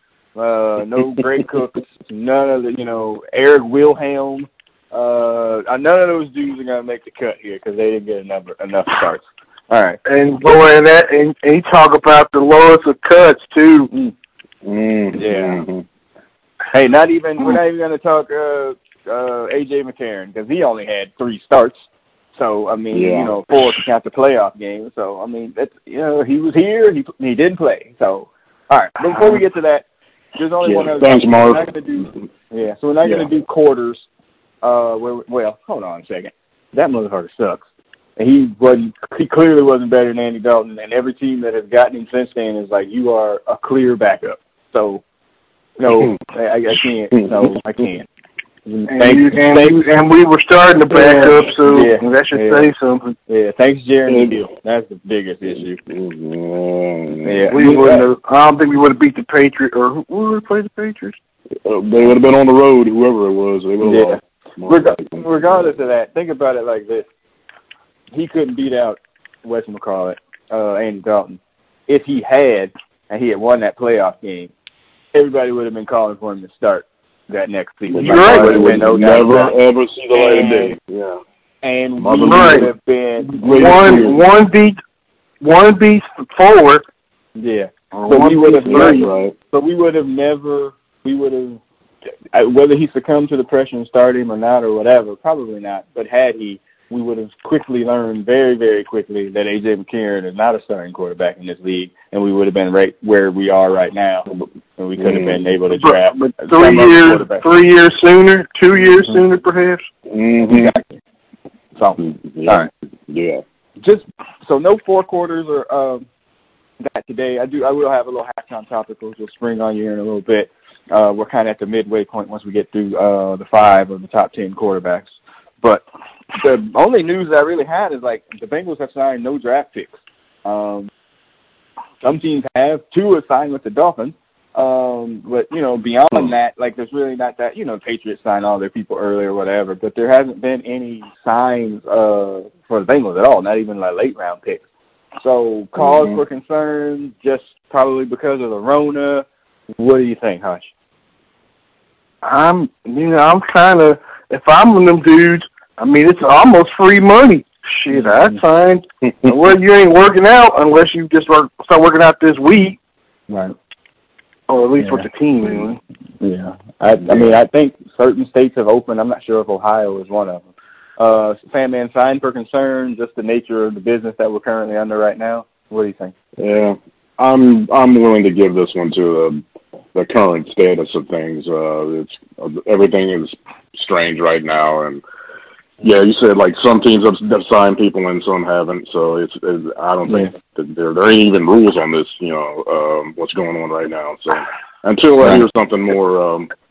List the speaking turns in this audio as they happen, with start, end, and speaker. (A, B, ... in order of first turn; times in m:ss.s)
0:00.4-0:10.0 A
0:10.0-0:13.9 B
0:14.6-0:15.8 C
0:15.1-0:15.6 A
0:16.7-0:29.8 A
0:22.9-0:23.6 C
0:30.4-0:34.1 A
0:30.6-0:31.7 C
0:33.0-0:33.3 C
0:34.6-0:37.6 A
0:38.2-0:45.0 A
0:45.8-0:48.1 A
0:47.1-0:47.5 C
0:48.7-0:49.8 A
0:48.9-0:53.2 B
0:50.9-0:52.7 A
0:53.3-0:55.8 A
0:54.1-0:54.5 C
0:55.9-0:57.6 C
0:57.2-0:58.1 A
0:57.5-1:01.2 B
1:01.6-1:05.7 C
1:03.8-1:07.1 A
1:08.1-1:14.5 A
1:15.1-1:19.6 A
1:17.9-1:21.2 C
1:18.0-1:18.9 B
1:20.1-1:20.8 A
1:21.6-1:24.1 A
1:22.0-1:22.7 C
1:22.2-1:22.7 B
1:23.3-1:24.8 B
1:23.4-1:24.2 C
1:25.4-1:26.8 B
1:27.4-1:31.6 A
1:28.0-1:29.1 B
1:28.4-1:29.3 C
1:32.3-1:47.5 A
1:45.0-1:45.4 C
1:45.8-1:49.8 B
1:50.1-1:50.7 C
1:50.5-1:51.0 A
1:51.8-1:52.7 A
1:52.0-1:53.4 C
1:53.8-1:56.1 A
1:56.8-2:05.8 A
2:06.4-2:09.9 A
2:10.4-2:10.9 A
2:12.0-2:24.6 A
2:25.2-2:29.3 A
2:25.8-2:26.2 C
2:29.8-2:30.7 A
2:32.2-2:42.8 B
2:37.9-2:38.4 A
2:43.3-2:43.6 A
2:44.5-2:45.8 B
2:44.8-2:45.1 A
2:46.2-2:50.5 A
2:47.1-2:47.3 C
2:51.0-2:56.1 A
2:56.4-3:05.0 C
3:05.8-3:16.5 C